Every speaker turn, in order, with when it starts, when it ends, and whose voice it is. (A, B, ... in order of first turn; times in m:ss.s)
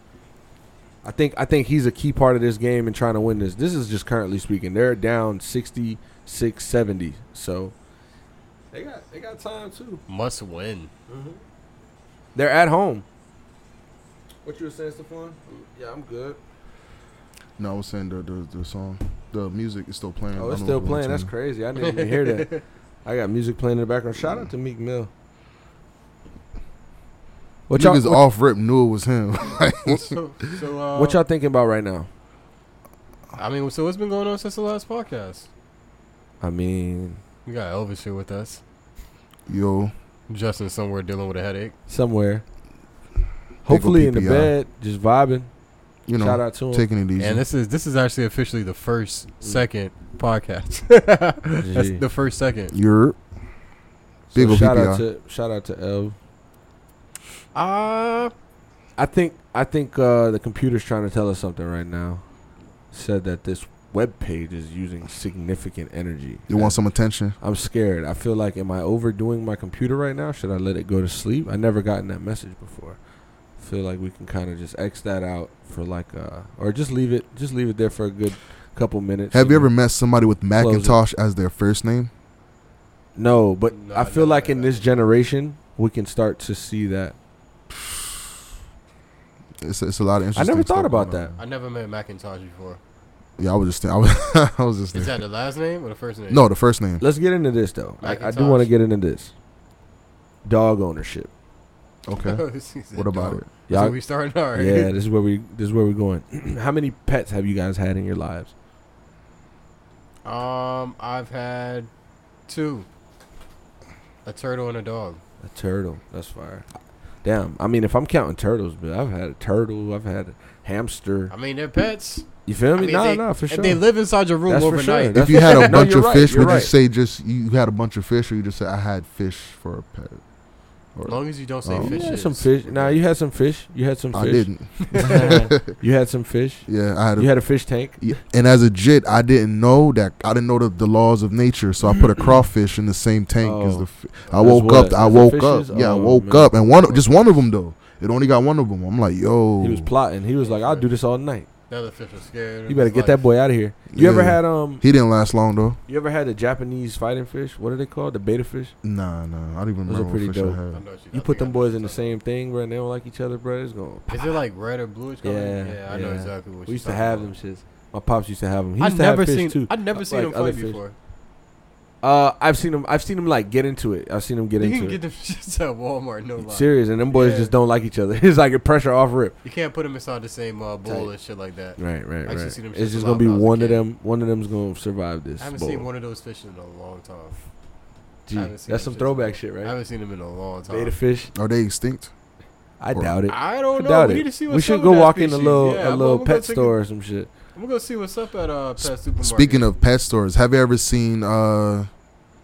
0:01.0-0:07.7 A
0:08.7-0:10.0 A
0:10.1-0:10.9 B
0:11.1-0:11.4 A
0:12.4-0:13.0 A
0:14.4-0:16.4 A
0:17.6-0:21.3 C
0:20.4-0:22.5 A
0:21.8-0:22.6 B
0:23.0-0:25.1 A
0:27.7-0:28.2 A
0:27.8-0:30.2 C
0:30.0-0:31.2 B
0:31.0-0:32.1 A
0:33.4-0:35.5 B
0:36.4-0:37.2 A
0:37.5-0:38.6 B
0:39.5-0:39.9 C
0:40.3-0:41.7 B
0:41.9-0:42.4 A
0:43.6-0:45.5 A
0:43.7-0:44.5 C
0:46.1-0:47.4 C
0:46.2-0:46.9 A
0:47.2-0:52.7 B
0:51.6-0:52.0 A
0:52.7-0:53.2 C
0:54.3-0:55.0 C
0:54.3-0:56.2 A
0:57.5-0:58.3 B
0:59.0-1:02.2 A
1:02.9-1:06.8 A
1:06.5-1:07.4 C
1:07.4-1:13.0 A
1:13.6-1:19.7 A
1:19.3-1:22.1 C
1:20.6-1:21.0 A
1:23.2-1:27.2 A
1:23.7-1:25.0 B
1:29.6-1:31.4 C
1:30.4-1:31.3 A
1:31.4-1:32.8 B
1:33.4-1:35.2 C
1:34.9-1:36.4 B
1:36.3-1:37.0 C
1:37.0-1:39.3 A
1:38.0-1:38.7 B
1:40.4-1:41.3 A
1:42.1-1:43.5 C
1:42.2-1:44.9 B
1:43.7-1:44.0 A
1:44.6-1:48.5 A
1:50.2-1:51.9 B
1:52.5-1:52.9 B
1:54.2-1:55.2 B
1:55.4-1:56.7 A
1:57.2-2:01.3 A
2:01.3-2:06.6 B
2:02.5-2:03.8 A
2:04.5-2:06.7 A
2:05.2-2:10.2 C
2:11.0-2:12.1 C
2:11.0-2:13.0 B
2:11.8-2:18.1 A
2:14.1-2:15.7 C
2:14.8-2:15.4 B
2:16.7-2:17.4 C
2:18.0-2:29.9 C
2:23.4-2:26.5 A
2:26.7-2:27.2 B
2:29.6-2:31.5 A
2:30.4-2:30.9 B
2:31.7-2:33.2 B
2:32.7-2:34.8 A
2:33.9-2:35.8 C
2:35.9-2:38.8 A
2:38.8-2:40.8 C
2:39.9-2:40.6 A
2:40.7-2:42.2 B
2:41.1-2:44.3 A
2:44.1-2:47.3 B
2:45.2-2:50.8 A
2:48.8-2:51.0 B
2:52.0-2:55.0 A
2:54.6-2:57.5 B
2:56.5-2:59.4 A
2:59.4-3:03.8 B
3:00.8-3:01.1 A
3:01.8-3:05.9 A
3:05.4-3:07.4 B
3:08.3-3:09.8 A
3:08.3-3:11.0 B
3:10.7-3:11.3 A
3:11.4-3:12.1 C
3:12.8-3:17.3 A
3:13.3-3:16.8 B
3:17.6-3:19.7 B
3:18.8-3:21.9 C